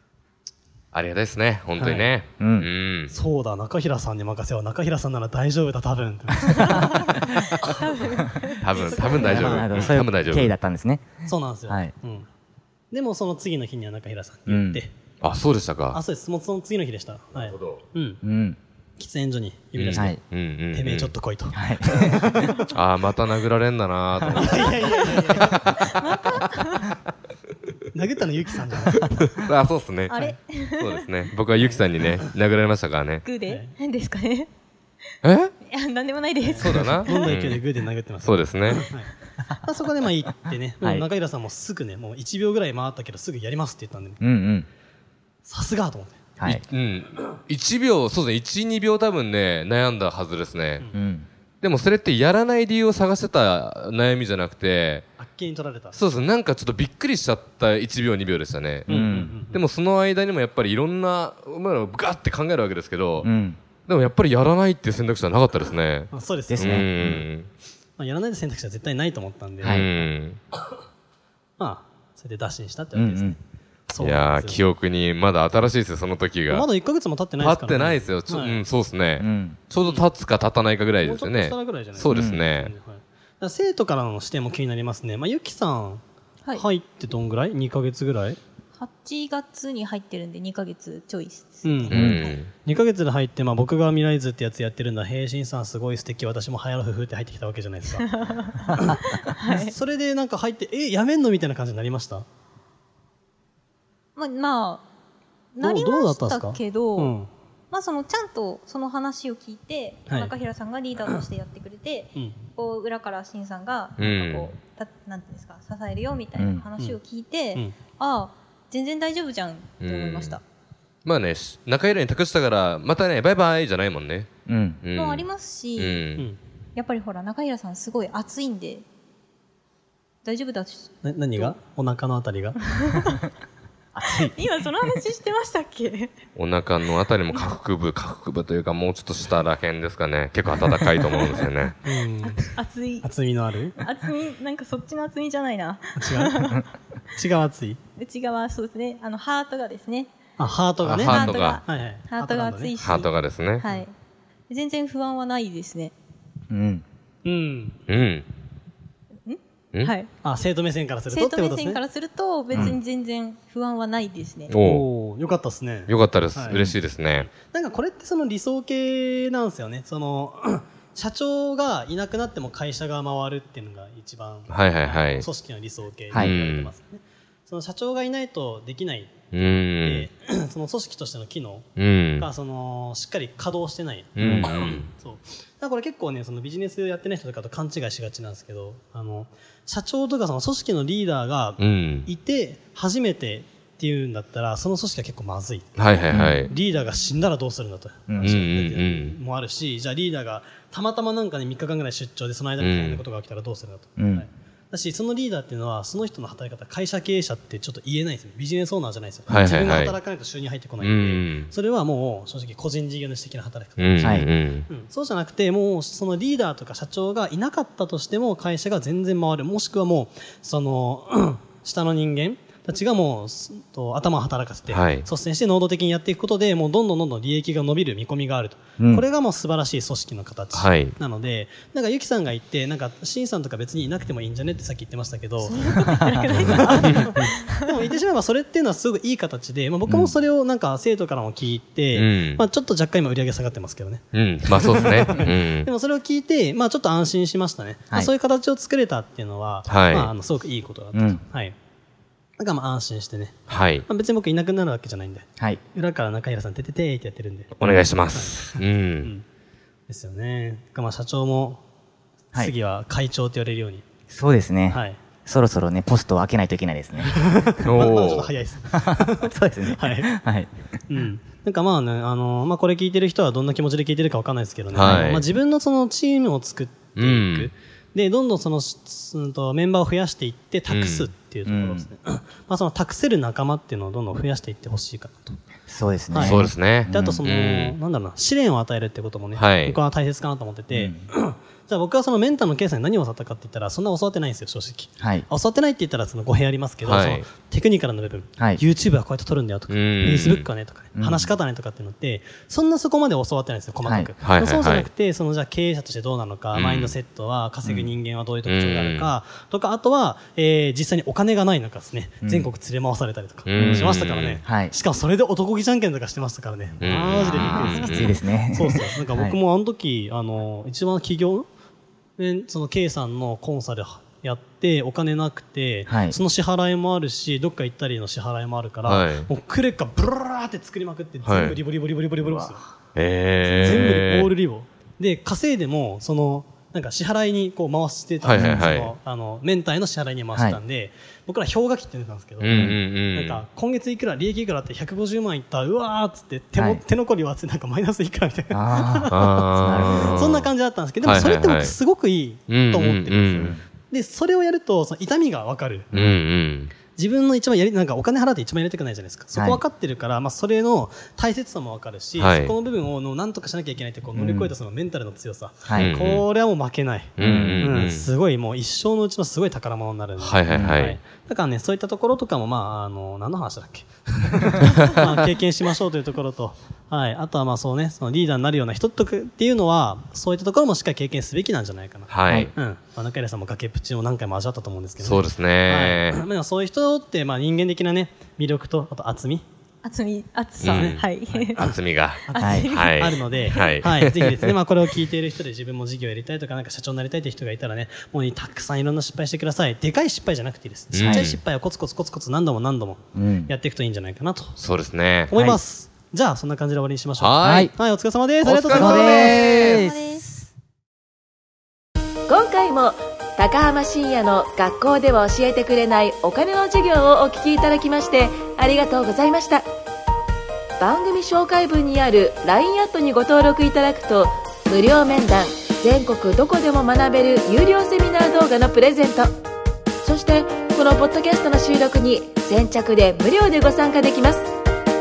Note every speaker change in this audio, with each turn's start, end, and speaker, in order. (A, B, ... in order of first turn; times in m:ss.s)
0:00.9-0:03.1 A
0:01.8-0:02.1 B
0:02.4-0:02.7 C
0:03.1-0:07.2 B
0:07.2-0:09.5 D
0:08.6-0:10.5 A
0:08.8-0:10.0 B
0:09.2-0:11.9 C
0:11.2-0:12.3 B
0:12.9-0:14.9 B
0:14.5-0:14.8 C
0:15.2-0:16.0 A
0:15.9-0:18.2 B
0:17.4-0:17.8 A
0:18.2-0:18.6 C
0:19.0-0:20.2 B
0:19.8-0:21.1 A
0:19.9-0:20.2 C
0:20.7-0:22.7 B
0:21.5-0:22.5 C
0:22.7-0:25.3 A
0:24.3-0:25.8 B
0:24.7-0:26.9 D
0:27.9-0:29.3 B
0:29.3-0:30.2 A
0:30.1-0:31.1 D
0:30.8-0:33.2 A
0:31.6-0:31.8 B
0:33.2-0:34.5 D
0:33.5-0:33.7 B
0:35.2-0:35.5 A
0:35.6-0:37.3 D
0:36.5-0:44.2 B
0:36.6-0:37.6 A
0:38.2-0:38.8 A
0:44.2-0:44.7 C
0:45.4-0:46.2 B
0:46.4-0:50.9 A
0:50.9-0:51.3 C
0:51.6-0:55.1 A
0:55.2-0:56.0 B
0:55.9-0:59.0 A
0:58.9-0:59.6 B
0:58.9-0:59.3 C
0:59.5-1:03.3 A
1:03.2-1:03.6 C
1:03.9-1:07.5 A
1:06.1-1:06.9 B
1:06.5-1:07.2 C
1:08.0-1:10.0 B
1:09.6-1:10.4 A
1:11.6-1:14.7 B
1:13.0-1:13.4 C
1:14.0-1:16.7 A
1:16.5-1:18.6 B
1:17.4-1:22.7 A
1:19.2-1:19.6 C
1:19.8-1:20.1 B
1:21.0-1:26.0 B
1:22.1-1:22.4 C
1:26.6-1:28.4 B
1:28.8-1:32.4 D
1:31.6-1:32.0 B
1:31.9-1:32.5 A
1:31.9-1:32.2 C
1:32.6-1:38.1 B
1:38.1-1:39.8 D
1:38.7-1:42.3 B
1:44.2-1:44.8 D
1:45.6-1:47.2 D
1:45.6-1:47.3 B
1:47.7-2:00.4 D
1:50.1-1:50.3 B
1:54.0-1:54.6 A
1:56.4-1:56.7 C
1:59.8-2:00.4 A
2:01.0-2:04.3 A
2:04.5-2:04.8 C
2:04.8-2:05.3 A
2:04.9-2:06.1 D
2:05.8-2:06.2 A
2:06.8-2:08.8 D
2:10.2-2:11.5 D
2:11.0-2:12.6 B
2:12.7-2:13.3 D
2:14.0-2:14.4 C
2:14.0-2:16.1 D
2:16.4-2:21.8 A
2:21.1-2:21.4 D
2:21.8-2:22.5 B
2:22.2-2:23.1 D
2:23.0-2:23.8 B
2:23.8-2:26.7 D
2:26.0-2:26.4 B
2:27.1-2:27.8 B
2:28.0-2:30.1 D
2:30.4-2:32.8 B
2:30.8-2:31.6 A
2:31.0-2:33.9 D
2:32.8-2:33.6 A
2:34.5-2:35.9 D
2:36.5-2:36.8 C
2:37.2-2:37.8 B
2:37.9-2:38.3 A
2:39.3-2:40.1 D
2:40.2-2:41.8 B
2:41.1-2:44.5 D
2:44.5-2:44.8 A
2:44.6-2:46.6 B
2:45.9-2:47.3 A
2:47.2-4:11.6 B
2:54.5-2:55.2 A
2:56.1-2:56.7 A
2:59.3-3:00.1 A
3:01.8-3:02.3 A
3:04.2-3:04.9 A
3:04.2-3:04.5 C
3:11.6-3:12.1 A
3:15.8-3:16.5 A
3:16.1-3:16.4 C
3:18.1-3:18.4 C
3:18.2-3:19.2 A
3:22.6-3:23.0 A
3:24.0-3:24.3 C
3:29.3-3:30.0 A
3:30.8-3:31.5 A
3:33.8-3:34.7 A
3:34.0-3:34.3 C
3:44.7-3:45.1 A
3:50.5-3:50.9 A
3:55.4-3:57.7 D
4:01.9-4:02.4 A
4:04.1-4:05.7 A
4:09.7-4:10.1 A
4:10.9-4:11.2 C
4:12.4-4:17.5 B
4:13.5-4:13.9 A
4:17.6-4:19.1 A
4:18.1-4:19.2 B
4:19.9-4:21.6 B
4:22.3-4:23.9 B
4:24.1-4:27.3 C
4:24.7-4:25.0 B
4:27.0-4:30.1 B
4:27.6-4:28.3 A
4:28.7-4:30.5 C
4:30.9-4:45.4 B
4:34.7-4:35.3 A
4:34.8-4:35.0 C
4:37.0-4:37.5 A
4:40.7-4:41.1 A
4:41.5-4:41.9 C
4:45.7-4:47.2 C
4:46.1-5:21.5 B
4:46.2-4:47.8 A
4:49.4-4:49.8 A
4:50.7-4:51.1 C
4:55.0-4:55.3 C
4:56.8-4:57.3 A
4:59.7-5:00.5 A
5:01.0-5:01.3 C
5:03.8-5:04.1 C
5:04.2-5:04.9 A
5:06.5-5:07.0 A
5:08.5-5:09.1 A
5:12.2-5:12.5 C
5:13.5-5:14.4 A
5:13.6-5:13.9 C
5:14.4-5:14.7 C
5:16.8-5:18.2 A
5:17.0-5:19.4 C
5:22.2-5:32.6 B
5:25.9-5:26.2 C
5:28.8-5:29.3 A
5:31.3-5:31.6 A
5:33.0-5:34.3 A
5:33.5-5:55.9 B
5:33.6-5:33.9 C
5:38.2-5:39.0 A
5:38.3-5:38.7 C
5:40.3-5:40.6 C
5:42.4-5:43.4 A
5:42.5-5:42.8 C
5:46.6-5:46.8 C
5:48.5-5:50.3 C
5:49.1-5:50.5 A
5:51.0-5:51.8 A
5:52.5-5:53.6 A
5:55.9-5:56.7 A
5:57.0-6:29.4 B
5:59.4-5:59.6 C
6:02.2-6:02.5 A
6:04.2-6:04.5 C
6:05.7-6:06.0 C
6:05.7-6:06.2 A
6:07.2-6:08.1 A
6:07.2-6:07.9 C
6:10.2-6:11.0 A
6:10.5-6:10.8 C
6:22.1-6:22.5 A
6:25.0-6:26.2 A
6:29.8-6:31.8 D
6:30.6-6:31.0 A
6:30.6-6:44.6 B
6:31.6-6:34.5 A
6:32.3-6:33.8 D
6:32.4-6:32.7 C
6:40.9-6:41.4 A
6:41.0-6:41.3 C
6:43.2-6:43.5 C
6:44.6-6:45.3 A
6:45.3-6:49.7 B
6:45.3-6:45.6 C
6:47.2-6:47.7 A
6:47.4-6:47.7 C
6:48.4-6:49.8 A
6:48.7-6:50.3 C
6:49.3-6:50.3 D
6:52.3-6:59.6 E
7:00.8-7:09.3 E
7:10.0-7:14.5 E